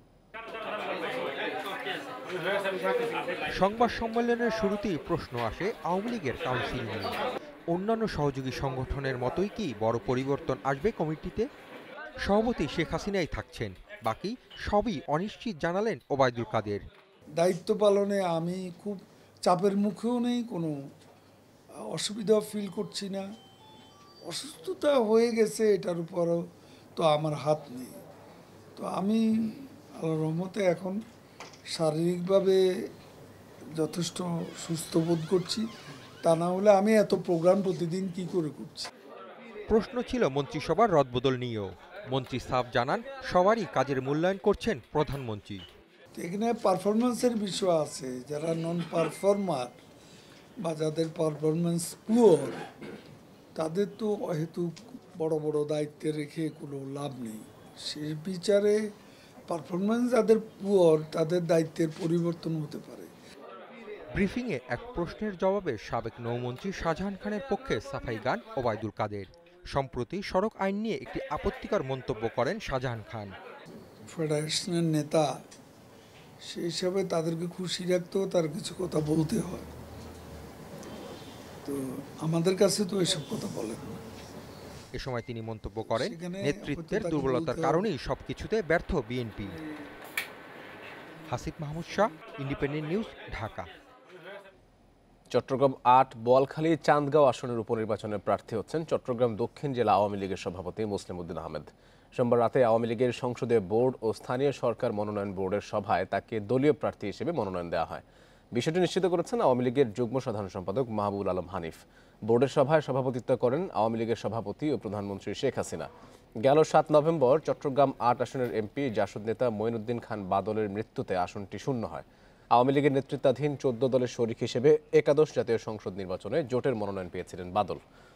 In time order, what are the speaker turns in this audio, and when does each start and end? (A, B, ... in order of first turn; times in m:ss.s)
0:03.5-0:07.2 A
0:07.7-0:11.5 A
0:12.2-0:16.8 A
0:17.4-0:20.7 B
0:21.9-0:23.3 B
0:24.2-0:26.4 B
0:27.0-0:27.9 B
0:28.8-0:29.2 B
0:30.0-0:31.0 B
0:31.7-0:32.6 B
0:33.8-0:35.6 B
0:36.2-0:38.9 B
0:39.7-0:45.6 A
0:46.2-0:49.8 B
0:50.6-0:52.6 B
0:53.6-0:58.8 B
0:59.5-1:03.1 B
1:04.1-1:13.3 A
1:14.1-1:15.2 B
1:16.5-1:19.7 B
1:21.6-1:24.0 B
1:25.0-1:29.6 A
1:26.0-1:27.8 B
1:31.3-1:33.7 A
1:35.3-1:48.0 C
1:48.5-1:55.9 C
1:56.4-2:07.8 C